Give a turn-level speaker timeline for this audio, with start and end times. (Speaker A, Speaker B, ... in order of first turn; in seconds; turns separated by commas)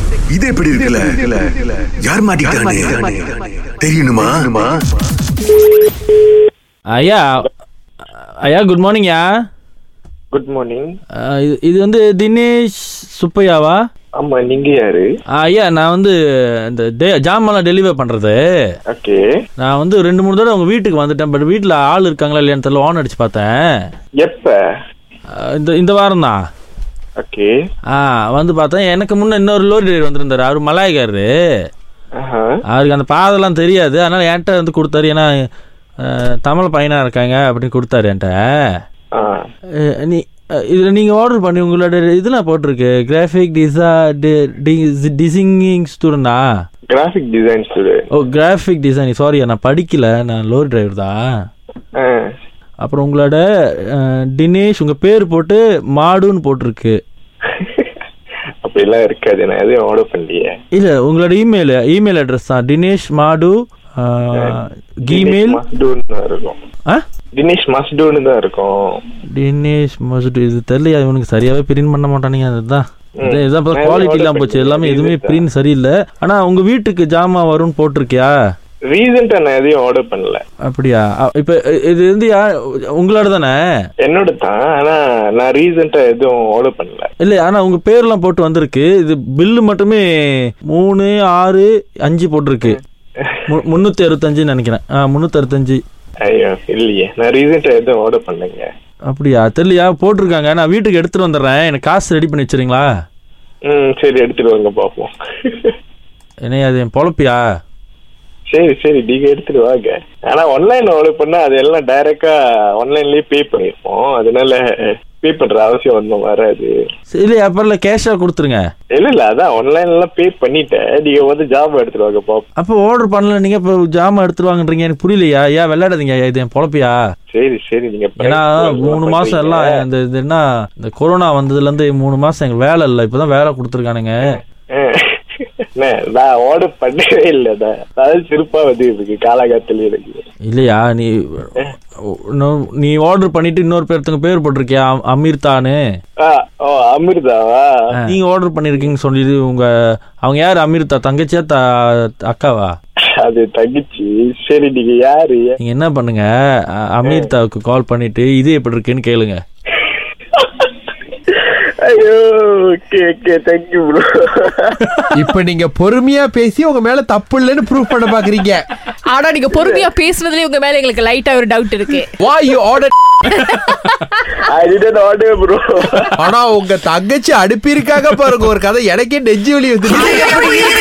Speaker A: 0.3-4.7, Speaker B: 6.9-7.5, Speaker B: 8.4-9.3, Speaker C: 10.3-10.9, Speaker B: 11.2-13.8, Speaker C: 14.2-15.1, Speaker B: 15.4-16.1, Speaker B: 16.6-18.4, Speaker C: 18.9-19.3, Speaker B: 19.6-23.7, Speaker C: 24.2-24.6, Speaker B: 25.4-26.4, Speaker C: 27.2-27.5, Speaker B: 27.9-31.3, Speaker C: 32.2-32.6, Speaker B: 32.7-35.3, Speaker B: 36.0-38.4, Speaker C: 39.1-39.4, Speaker B: 39.8-46.4, Speaker C: 46.9-48.1, Speaker B: 48.1-51.2, Speaker C: 51.9-52.3, Speaker B: 52.8-53.4, Speaker B: 53.9-57.0, Speaker C: 57.5-58.0, Speaker C: 58.6-60.5, Speaker B: 60.7-65.6, Speaker C: 65.1-66.5, Speaker C: 67.3-69.0, Speaker B: 69.3-78.3, Speaker C: 73.2-75.4, Speaker C: 78.9-80.4, Speaker B: 80.6-82.4, Speaker B: 82.9-83.6, Speaker C: 84.0-87.1, Speaker B: 87.2-90.0, Speaker B: 90.7-92.8, Speaker C: 92.6-93.4, Speaker B: 93.5-95.8, Speaker C: 96.3-98.7, Speaker B: 99.1-102.9, Speaker C: 103.7-105.7, Speaker B: 106.4-107.4, Speaker C: 108.5-116.7, Speaker B: 117.2-118.6, Speaker C: 118.9-122.4, Speaker B: 122.6-127.0, Speaker C: 127.3-129.7, Speaker B: 128.2-134.2, Speaker C: 134.8-135.2, Speaker C: 135.8-140.2, Speaker B: 140.5-141.5, Speaker B: 142.1-145.8, Speaker C: 146.2-147.9, Speaker B: 148.0-149.7, Speaker B: 150.2-152.7, Speaker C: 153.2-155.6, Speaker B: 155.6-156.3, Speaker B: 156.8-159.4, Speaker C: 157.0-157.3, Speaker C: 159.8-165.0, Speaker D: 165.1-168.6, Speaker E: 169.1-172.1, Speaker C: 169.5-169.9, Speaker D: 172.2-172.9, Speaker C: 174.4-176.1, Speaker D: 176.2-180.4